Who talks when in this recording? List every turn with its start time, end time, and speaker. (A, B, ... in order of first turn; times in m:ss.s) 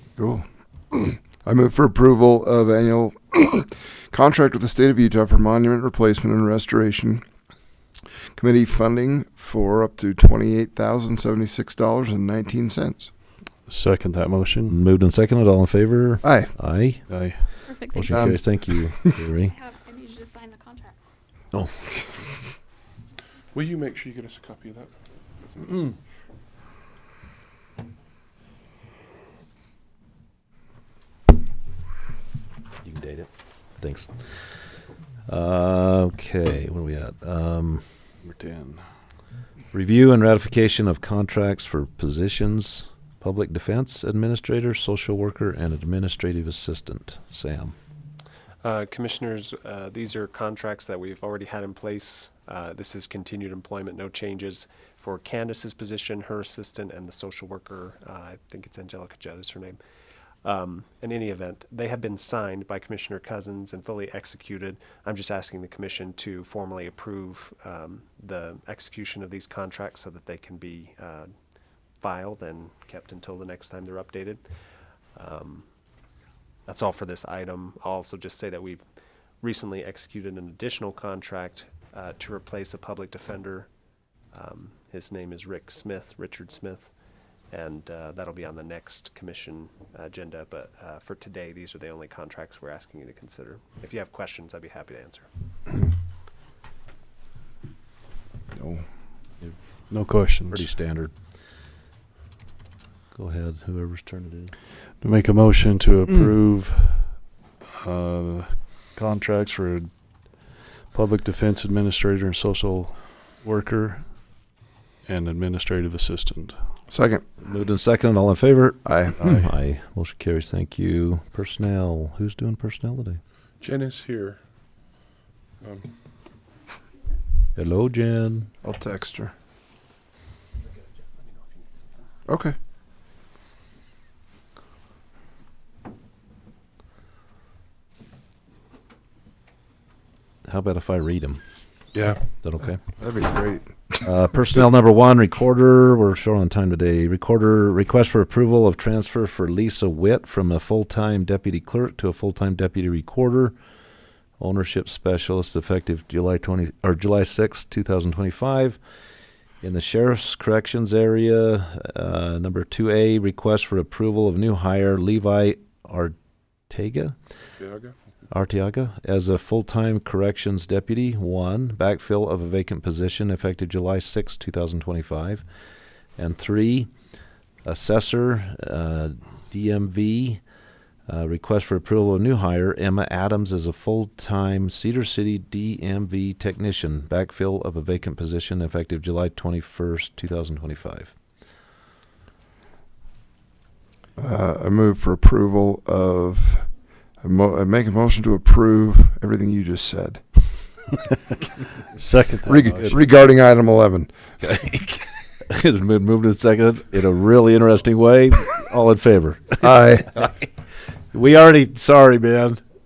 0:00.2-0:07.2 A
0:08.4-0:13.1 A
0:13.6-0:14.8 B
0:14.7-0:19.5 C
0:16.2-0:16.5 A
0:17.1-0:17.4 B
0:17.6-0:18.3 D
0:18.1-0:19.1 A
0:19.5-0:21.0 D
0:23.5-0:24.9 E
0:25.6-0:25.9 E
0:32.8-0:34.7 C
0:35.3-0:37.9 C
0:38.2-0:38.8 B
0:39.7-0:47.7 C
0:48.6-0:59.8 F
1:00.4-1:11.3 F
1:12.0-1:14.4 F
1:15.2-1:15.6 F
1:16.7-1:18.8 F
1:19.4-1:23.7 F
1:24.3-1:26.9 F
1:27.5-1:35.3 F
1:38.5-1:38.8 A
1:39.9-1:40.7 B
1:40.5-1:41.1 C
1:43.1-1:44.5 C
1:45.0-1:54.5 B
1:55.0-1:56.6 B
1:56.9-1:57.3 A
1:57.4-2:03.2 C
1:58.8-1:59.2 A
2:03.6-2:04.4 E
2:05.6-2:05.9 E
2:07.6-2:08.5 C
2:08.6-2:09.3 A
2:12.3-2:12.5 A
2:20.4-2:21.4 C
2:21.9-2:22.2 E
2:22.4-2:22.8 C
2:22.9-2:24.0 A
2:24.0-2:33.5 C
2:34.4-2:38.8 C
2:39.6-2:46.1 C
2:46.7-2:47.1 C
2:47.6-2:47.9 E
2:48.3-2:55.4 C
2:56.2-2:56.9 C
2:57.6-3:00.4 C
3:01.1-3:11.1 C
3:14.2-3:16.7 A
3:17.2-3:20.4 A
3:21.9-3:23.0 B
3:22.4-3:24.1 A
3:24.4-3:30.5 C
3:29.6-3:30.1 A
3:31.1-3:32.6 C